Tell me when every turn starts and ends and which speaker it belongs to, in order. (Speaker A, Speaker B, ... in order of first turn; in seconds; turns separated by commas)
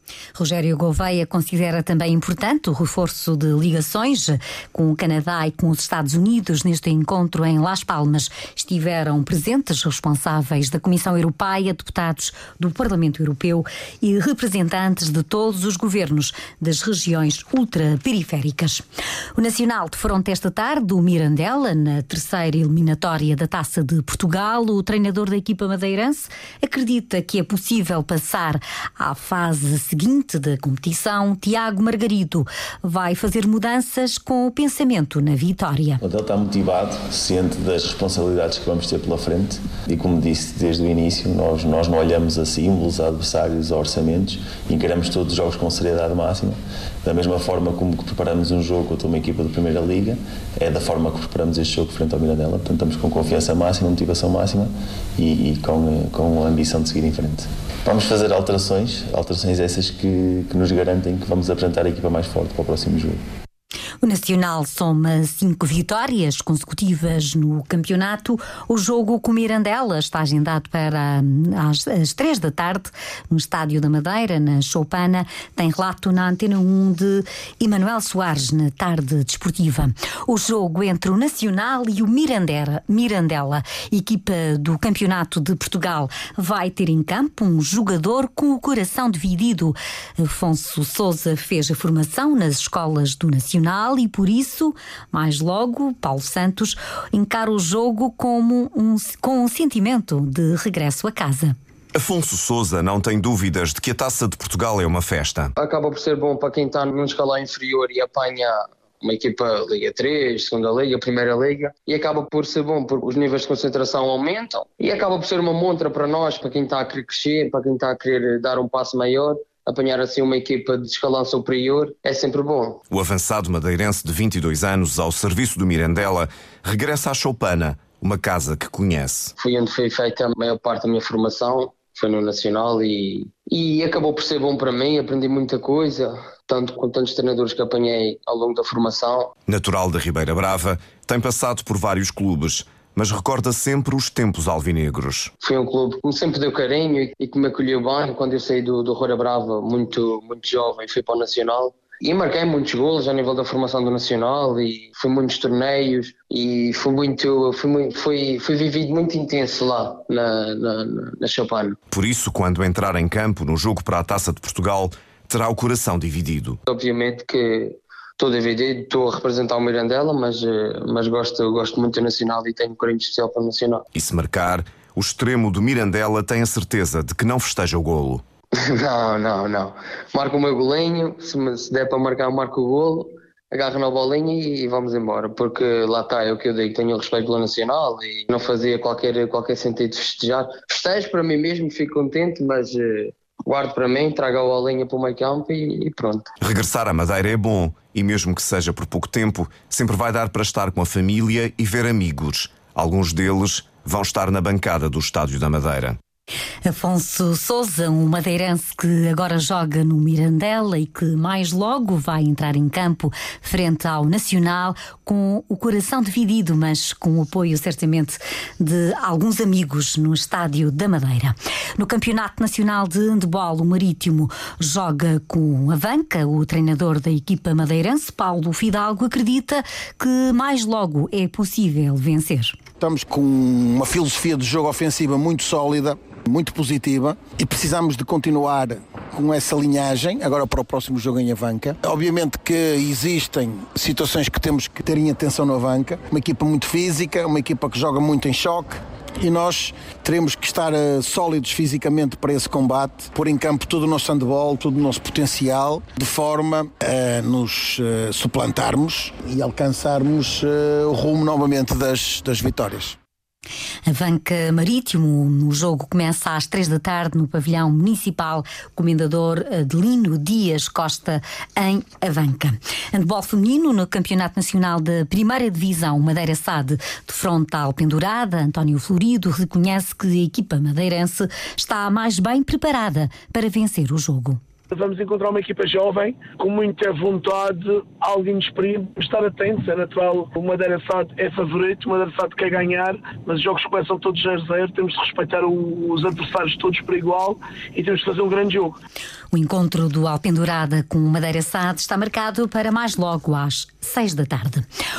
Speaker A: 0.3-18.8, Speaker A: 19.4-36.0, Speaker B: 36.0-63.2, Speaker A: 64.0-101.5, Speaker C: 101.9-105.5, Speaker D: 105.6-122.8, Speaker C: 122.9-129.3, Speaker D: 129.4-139.3, Speaker C: 139.5-145.3, Speaker D: 145.4-161.8, Speaker C: 161.9-166.6, Speaker D: 166.7-173.8, Speaker C: 173.9-178.2, Speaker D: 178.6-196.3, Speaker C: 196.4-206.0, Speaker A: 206.6-232.6, Speaker E: 232.8-262.9, Speaker A: 263.9-284.4, Speaker F: 284.7-298.8, Speaker A: 299.3-304.6